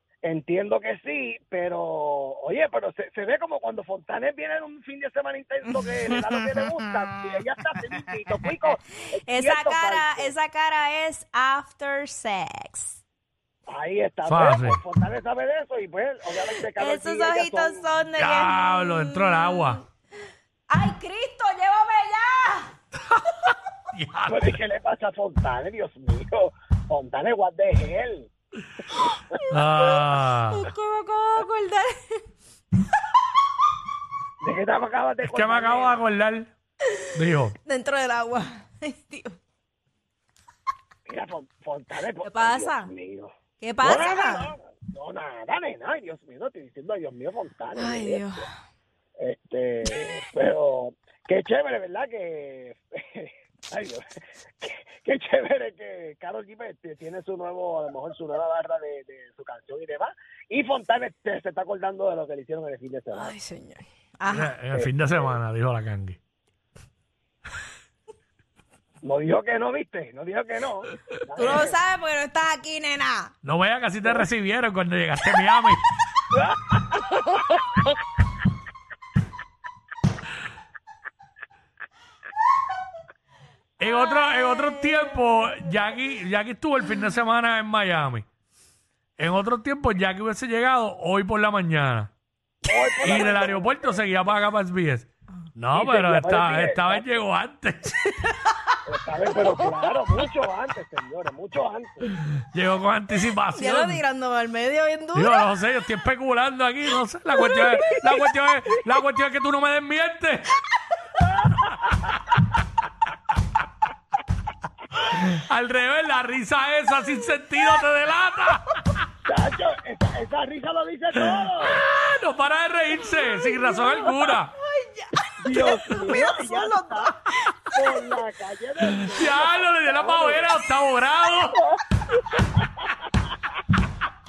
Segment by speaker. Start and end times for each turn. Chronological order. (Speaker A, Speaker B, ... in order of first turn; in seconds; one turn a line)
Speaker A: 0.2-10.3
Speaker B: 9.3-13.0
Speaker A: 13.7-17.9
Speaker C: 14.3-14.8
Speaker B: 16.4-19.8
Speaker C: 18.2-19.8
Speaker B: 20.7-22.7
Speaker C: 23.9-24.6
Speaker A: 24.3-28.3
Speaker C: 29.5-30.7
Speaker B: 29.6-32.2
Speaker A: 34.4-36.0
Speaker C: 35.2-36.5
Speaker C: 37.1-37.6
Speaker B: 37.6-39.4
Speaker A: 41.1-48.3
Speaker B: 42.2-42.9
Speaker B: 43.6-44.5
Speaker B: 47.8-48.5
Speaker A: 49.2-63.3
Speaker B: 63.1-64.6
Speaker C: 64.3-66.2
Speaker A: 64.7-65.4
Speaker A: 69.0-71.8
Speaker B: 71.4-73.3
Speaker C: 73.4-75.8
Speaker A: 74.0-74.3
Speaker A: 76.3-77.0
Speaker C: 83.8-88.2
Speaker C: 89.2-92.1
Speaker A: 92.6-94.0
Speaker C: 93.0-98.0
Speaker A: 95.7-97.2
Speaker A: 98.9-102.1
Speaker C: 102.5-104.0
Speaker B: 103.3-105.4
Speaker C: 105.2-110.5
Speaker B: 107.4-108.0
Speaker A: 111.2-112.1
Speaker C: 115.0-118.6
Speaker A: 119.2-121.8
Speaker C: 121.2-124.5
Speaker B: 123.1-125.1
Speaker A: 125.4-127.2
Speaker B: 126.0-127.2
Speaker A: 127.7-130.5
Speaker C: 128.8-131.6
Speaker A: 131.8-132.6